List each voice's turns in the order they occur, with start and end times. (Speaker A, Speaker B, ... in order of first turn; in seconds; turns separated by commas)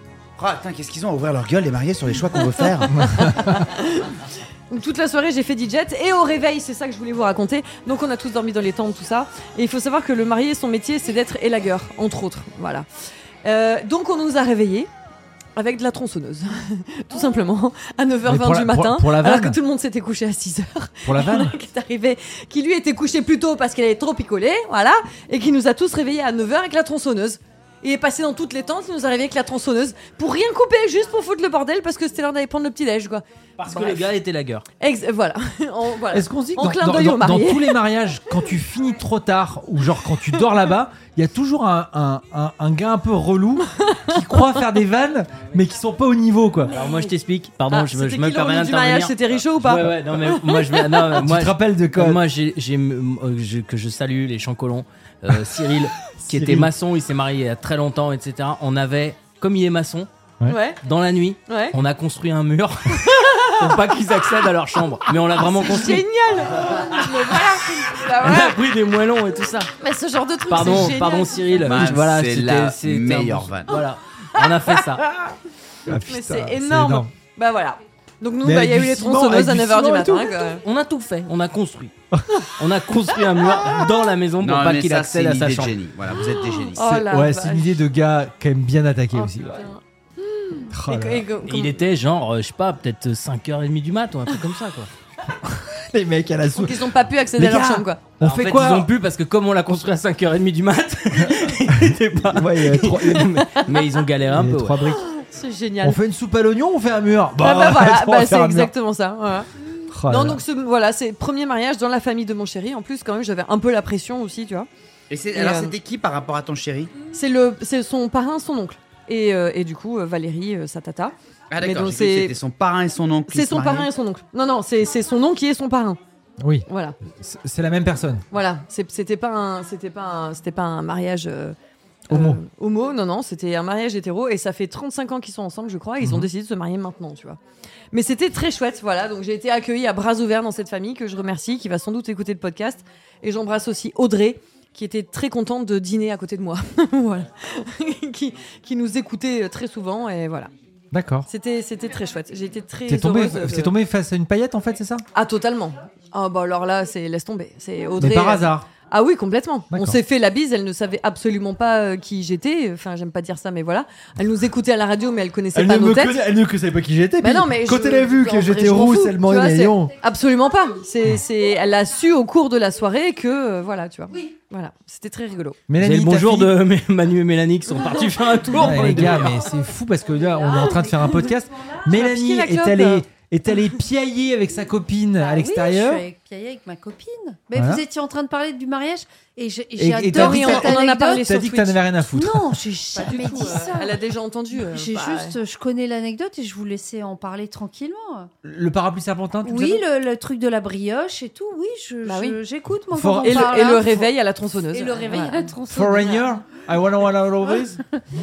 Speaker A: 0.4-3.4, Speaker B: 2.3-12.9, Speaker C: 2.9-3.6, Speaker B: 13.4-14.9, Speaker B: 15.6-34.1, Speaker C: 18.2-19.6, Speaker C: 21.0-21.5, Speaker D: 33.6-34.6, Speaker B: 34.8-37.9, Speaker C: 36.1-46.7, Speaker B: 43.7-44.6, Speaker B: 46.7-47.1, Speaker D: 46.7-60.1, Speaker B: 47.7-51.0, Speaker C: 51.1-52.2, Speaker C: 56.2-56.7, Speaker B: 60.5-60.8, Speaker D: 60.8-66.1, Speaker B: 61.5-61.8, Speaker B: 63.0-63.8, Speaker B: 65.3-68.6, Speaker D: 67.2-69.7, Speaker B: 69.8-71.7, Speaker D: 70.5-75.1, Speaker A: 71.6-73.7, Speaker C: 75.8-77.1, Speaker B: 75.9-80.6, Speaker C: 78.4-80.5, Speaker D: 80.6-81.9, Speaker C: 82.1-82.4, Speaker D: 82.5-85.8, Speaker A: 84.4-87.0, Speaker B: 86.1-87.8, Speaker C: 87.0-89.7, Speaker B: 89.1-91.8, Speaker C: 90.7-91.3, Speaker D: 91.4-94.9, Speaker C: 95.4-98.9, Speaker B: 96.5-98.0, Speaker D: 98.2-104.9, Speaker C: 101.7-103.7, Speaker C: 104.3-105.1, Speaker B: 104.9-106.0, Speaker C: 105.8-108.7, Speaker B: 107.4-109.5, Speaker C: 109.9-110.4, Speaker B: 110.0-114.7, Speaker A: 115.1-116.9, Speaker B: 115.3-115.7, Speaker B: 117.1-122.4, Speaker A: 121.5-123.9, Speaker B: 123.3-126.0, Speaker C: 126.4-128.2, Speaker B: 126.7-127.0, Speaker B: 128.3-131.6, Speaker B: 132.1-150.5, Speaker C: 132.1-132.4, Speaker C: 136.0-136.3, Speaker C: 150.9-151.3, Speaker B: 151.3-153.8, Speaker C: 152.8-155.0, Speaker B: 155.1-166.3, Speaker C: 158.0-158.7, Speaker C: 159.7-160.0, Speaker C: 165.5-169.9, Speaker B: 167.2-175.6, Speaker C: 175.7-176.5, Speaker D: 175.7-179.5, Speaker C: 178.6-186.0, Speaker B: 178.7-179.2, Speaker E: 180.0-181.8, Speaker B: 180.5-181.3, Speaker B: 181.8-183.0, Speaker E: 185.2-191.3, Speaker C: 187.5-187.8, Speaker C: 189.8-193.4, Speaker B: 190.1-191.8, Speaker E: 192.1-194.0, Speaker B: 192.9-195.3, Speaker E: 194.6-198.3, Speaker C: 198.4-199.8, Speaker E: 199.4-204.1, Speaker B: 202.0-202.4, Speaker C: 202.9-203.6, Speaker B: 203.2-205.5, Speaker E: 204.6-206.3, Speaker C: 205.7-207.8, Speaker E: 207.4-207.9